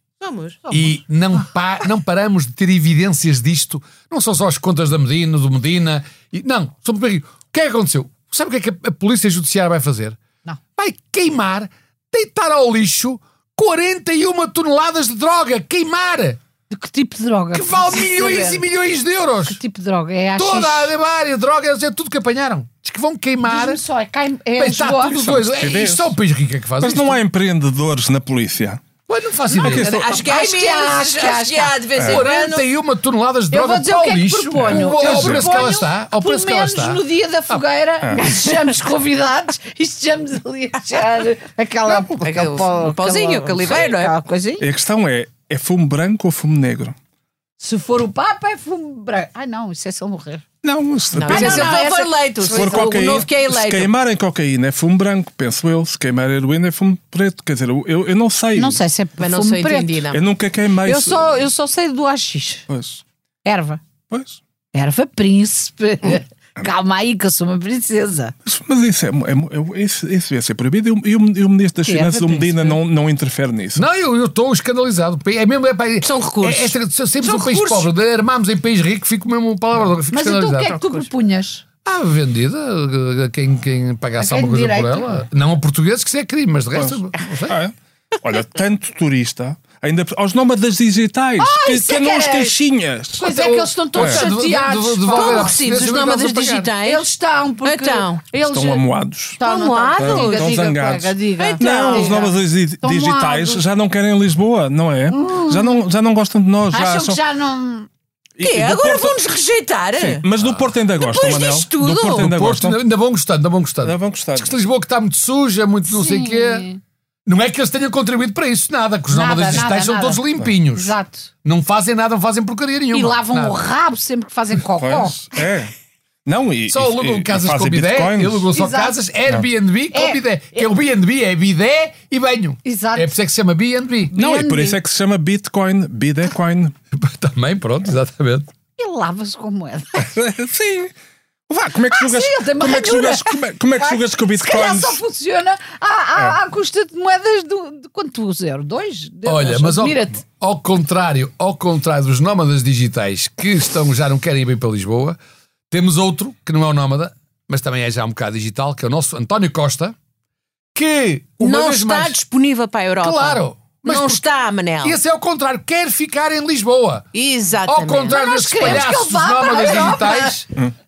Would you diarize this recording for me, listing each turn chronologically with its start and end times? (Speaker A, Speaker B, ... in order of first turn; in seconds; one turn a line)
Speaker A: 0.2-0.6
Speaker B: 0.7-10.2
Speaker B: 10.8-16.4
Speaker C: 16.7-18.6
Speaker B: 17.5-19.6
Speaker C: 19.5-20.9
Speaker B: 20.4-23.8
Speaker C: 23.5-25.2
Speaker B: 24.6-27.2
Speaker D: 25.1-26.2
Speaker D: 26.8-28.8
Speaker B: 29.1-29.9
Speaker C: 29.5-31.8
Speaker D: 29.6-30.2
Speaker A: 29.6-32.7
Speaker D: 32.0-32.2
Speaker B: 32.0-37.6
Speaker C: 33.5-44.6
Speaker D: 34.5-35.6
Speaker A: 41.9-44.1
Speaker D: 44.6-47.0
Speaker C: 47.6-50.4
Speaker D: 50.6-51.8
Speaker A: 51.1-53.9
Speaker C: 51.3-53.3
Speaker D: 52.5-58.8
Speaker C: 58.5-60.0
Speaker A: 59.2-60.2
Speaker D: 60.1-61.4
Speaker C: 60.8-62.7
Speaker D: 62.7-63.0
Speaker C: 63.5-63.8
Speaker D: 64.1-64.4
Speaker C: 64.7-68.3
Speaker D: 68.5-73.8
Speaker C: 71.8-72.8
Speaker B: 73.8-81.0
Speaker A: 76.0-77.9
Speaker C: 80.1-81.6
Speaker B: 81.8-87.6
Speaker C: 84.2-85.2
Speaker D: 86.8-93.3
Speaker C: 91.4-92.6
Speaker C: 93.2-95.7
Speaker B: 93.2-96.7
Speaker D: 94.0-94.2
Speaker A: 95.1-97.1
Speaker C: 96.8-98.9
Speaker A: 97.6-98.2
Speaker D: 98.5-99.4
Speaker C: 99.4-103.6
Speaker A: 99.4-100.6
Speaker D: 100.0-107.2
Speaker A: 101.4-102.3
Speaker C: 105.1-105.8
Speaker C: 106.7-107.9
Speaker D: 108.4-109.2
Speaker A: 108.4-110.2
Speaker D: 110.0-112.8
Speaker A: 111.0-112.3
Speaker B: 112.2-116.7
Speaker D: 113.8-114.6
Speaker C: 115.9-116.8
Speaker B: 117.3-123.6
Speaker C: 119.1-121.3
Speaker C: 122.9-125.2
Speaker D: 124.8-125.7
Speaker D: 126.2-128.5
Speaker B: 126.7-134.1
Speaker C: 128.5-129.0
Speaker C: 129.9-130.6
Speaker C: 132.6-133.1
Speaker C: 134.1-134.8
Speaker D: 134.1-136.8
Speaker B: 136.9-138.5
Speaker C: 138.8-140.1
Speaker D: 140.0-140.9
Speaker D: 141.5-145.0
Speaker C: 141.9-150.2
Speaker B: 149.3-155.2
Speaker B: 155.7-160.0
Speaker B: 160.8-162.2
Speaker A: 161.4-165.0
Speaker B: 163.0-164.2
Speaker B: 164.8-167.1
Speaker A: 167.1-168.2
Speaker B: 167.7-170.6
Speaker C: 168.1-170.4